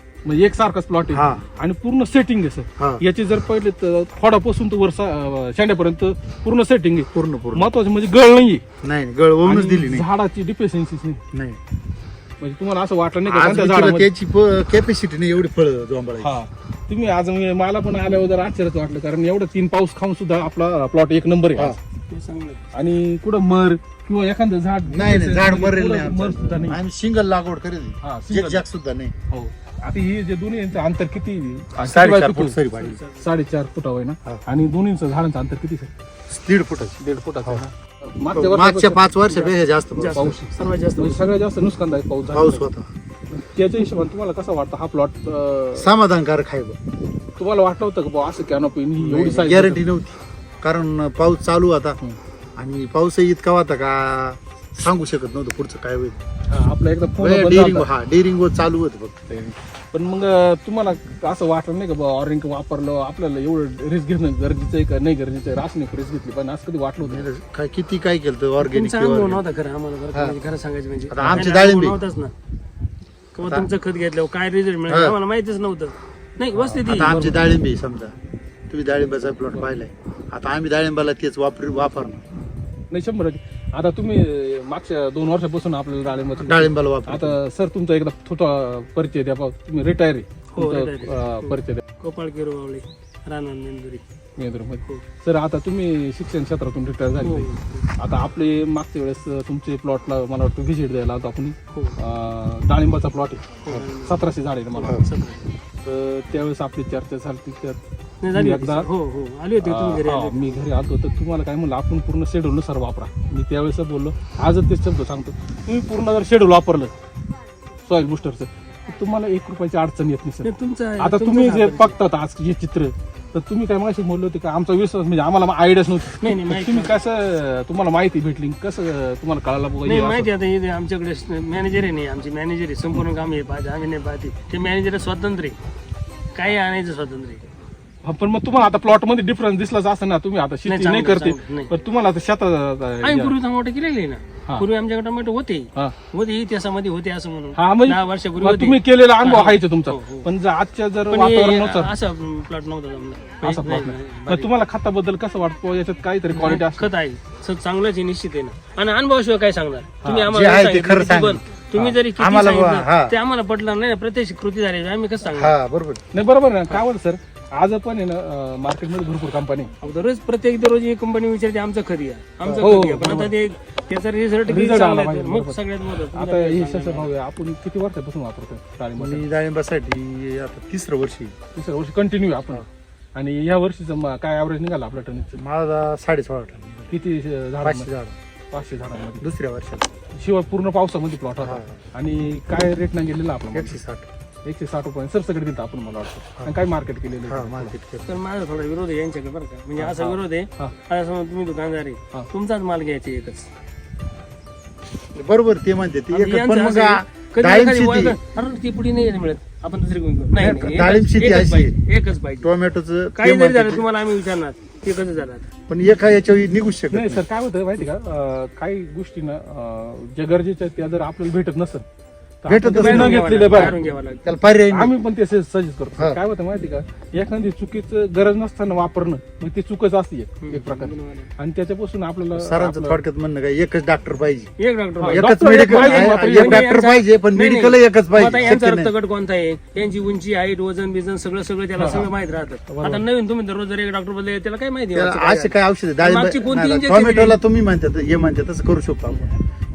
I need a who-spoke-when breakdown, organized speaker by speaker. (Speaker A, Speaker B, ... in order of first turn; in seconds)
Speaker A: 0.2-8.6, 9.4-11.2, 12.4-14.1, 16.2-21.8, 22.7-26.8, 28.0-28.6, 29.3-32.6, 33.2-35.9, 37.0-39.6, 40.1-42.6, 43.3-45.9, 47.4-49.9, 56.5-57.9, 59.9-67.3, 77.0-77.4, 82.9-91.8, 94.4-105.0, 105.8-107.8, 108.3-108.9, 109.6-116.9, 117.9-130.3, 138.0-143.4, 147.6-151.9, 153.4-156.9, 166.1-169.7, 172.6-173.3, 174.5-179.2, 181.5-185.4, 186.9-187.9, 188.5-189.2, 190.2-193.8, 194.4-197.7, 199.8-200.7, 216.9-221.9, 222.4-223.8, 224.7-233.0, 235.0-236.7, 241.8-242.1, 242.7-243.0
Speaker B: 1.1-1.5, 7.1-7.7, 8.8-10.1, 11.3-11.6, 13.3-16.4, 24.9-29.1, 31.8-33.0, 36.3-37.6, 38.3-40.4, 42.3-42.9, 45.8-46.8, 49.0-52.0, 52.6-56.2, 57.2-59.5, 67.0-69.4, 71.1-72.0, 74.9-75.2, 76.6-78.1, 78.7-82.2, 86.4-87.4, 160.2-163.2, 165.3-166.0, 179.0-181.3, 185.4-186.9, 187.6-188.2, 189.2-189.9, 191.4-191.8, 193.5-194.1, 197.3-198.1, 205.1-208.2, 210.4-211.8, 212.4-213.8, 215.7-217.2, 222.5-224.9, 232.4-234.5, 235.1-238.9, 244.9-249.3
Speaker C: 22.1-22.7, 32.8-33.1, 40.0-41.3, 68.6-72.3, 73.3-77.2, 90.5-94.0, 97.2-97.9, 103.7-105.5, 108.2-110.7, 120.4-122.0, 126.2-127.0, 129.8-135.6, 136.3-137.4, 140.7-141.7, 143.0-150.3, 151.1-154.5, 156.3-165.6, 169.8-177.1, 198.1-203.5, 206.1-212.5, 213.2-215.5, 222.7-224.2, 230.4-231.3, 234.6-247.4